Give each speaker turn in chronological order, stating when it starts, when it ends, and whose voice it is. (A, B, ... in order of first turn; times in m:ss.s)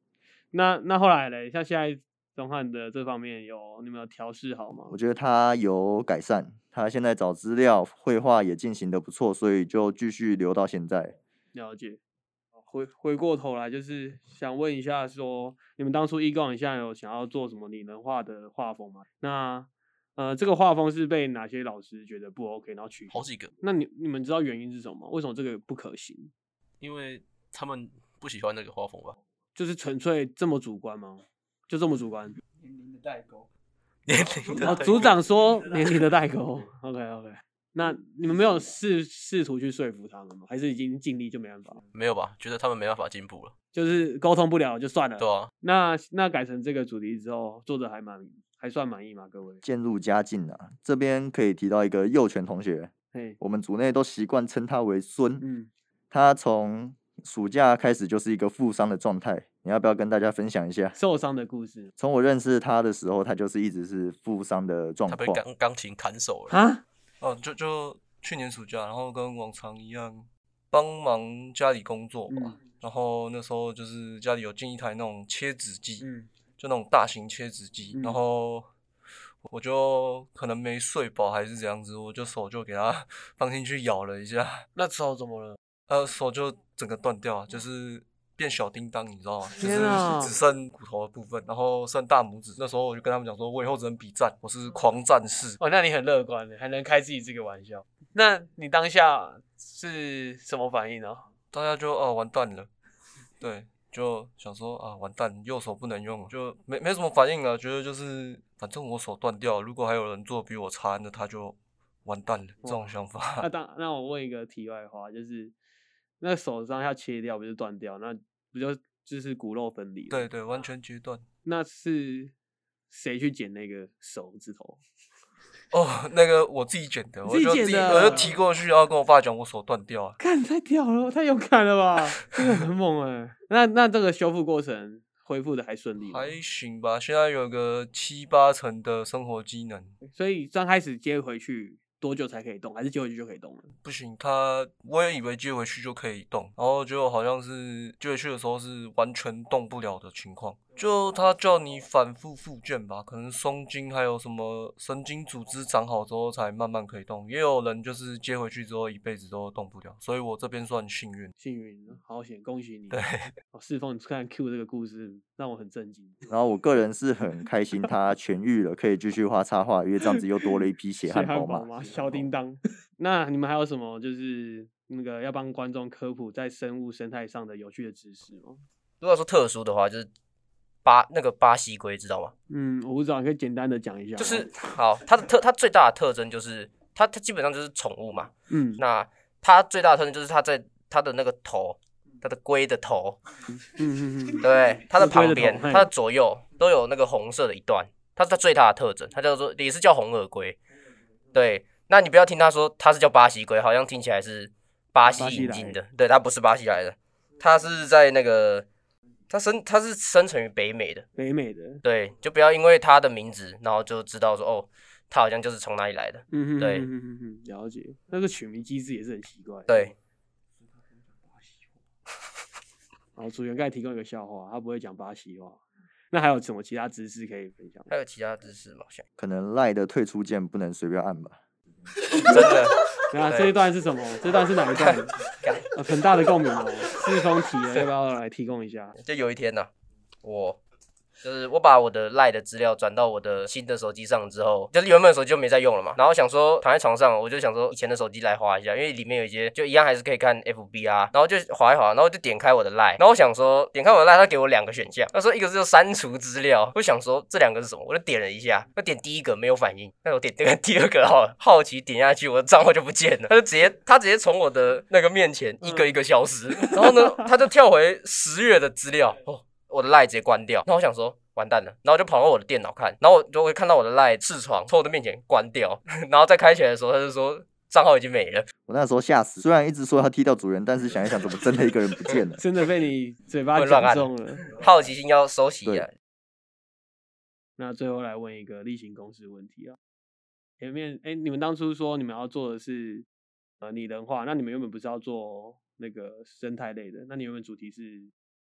0:00.5-0:04.9 A
0:04.9-0:11.2 B
0:11.5-0:12.0 A
0:12.6-0:26.3 A
0:23.1-0:23.5 C
0:26.8-0:29.2 C
0:29.6-0:32.4 A
0:34.0-0:35.2 C
0:34.6-0:41.8 A
0:41.9-0:43.5 C
0:43.7-0:49.6 A
0:45.2-0:45.5 C
0:49.6-0:55.4 B
0:53.1-0:53.4 A
0:55.4-0:55.7 A
0:56.1-1:01.0 B
1:01.0-1:01.9 A
1:02.0-1:05.4 B
1:05.1-1:06.6 C
1:06.5-1:06.8 A
1:07.2-1:16.0 D
1:12.3-1:12.6 A
1:16.0-1:16.3 A
1:16.6-1:18.7 D
1:17.9-1:18.2 A
1:19.4-1:24.6 D
1:24.8-1:25.6 A
1:25.9-1:35.6 D
1:29.5-1:30.3 A
1:35.6-1:41.3 A
1:41.5-1:42.7 D
1:43.4-1:53.5 D
1:52.6-1:55.5 A
1:56.2-2:00.3 A
2:00.1-2:01.2 D
2:01.4-2:02.3 A
2:02.9-2:04.8 A
2:05.7-2:10.2 D
2:07.2-2:08.3 A
2:10.2-2:16.4 A
2:16.0-2:19.9 D
2:20.1-2:23.7 A
2:23.8-2:41.3 D
2:41.4-2:43.0 A
2:42.9-2:43.3 D
2:43.5-2:46.2 A
2:46.3-2:52.2 B
2:51.0-2:58.6 A
2:59.0-3:00.1 E
3:00.8-3:02.3 E
3:02.5-3:04.5 A
3:04.2-3:13.2 E
3:08.5-3:08.8 A
3:13.5-3:15.9 A
3:14.4-3:20.6 E
3:21.3-3:28.7 E
3:25.1-3:25.8 A
3:29.3-3:31.0 E
3:31.2-3:31.8 A
3:31.8-3:36.9 E
3:36.3-3:39.9 A
3:39.7-3:39.9 E
3:43.2-3:47.9 A
3:47.9-3:49.0 E
3:49.2-3:51.4 B
3:52.1-3:53.5 E
3:53.1-3:55.2 A
3:54.7-3:55.7 E
3:55.7-3:59.0 A
3:59.0-3:59.7 E
4:00.2-4:00.6 E
4:01.2-4:38.5 E
4:38.6-4:42.4 B
4:42.4-4:44.5 A
4:43.5-4:45.9 E
4:47.6-4:49.8 A
4:50.6-4:53.0 A
4:53.6-4:58.1 A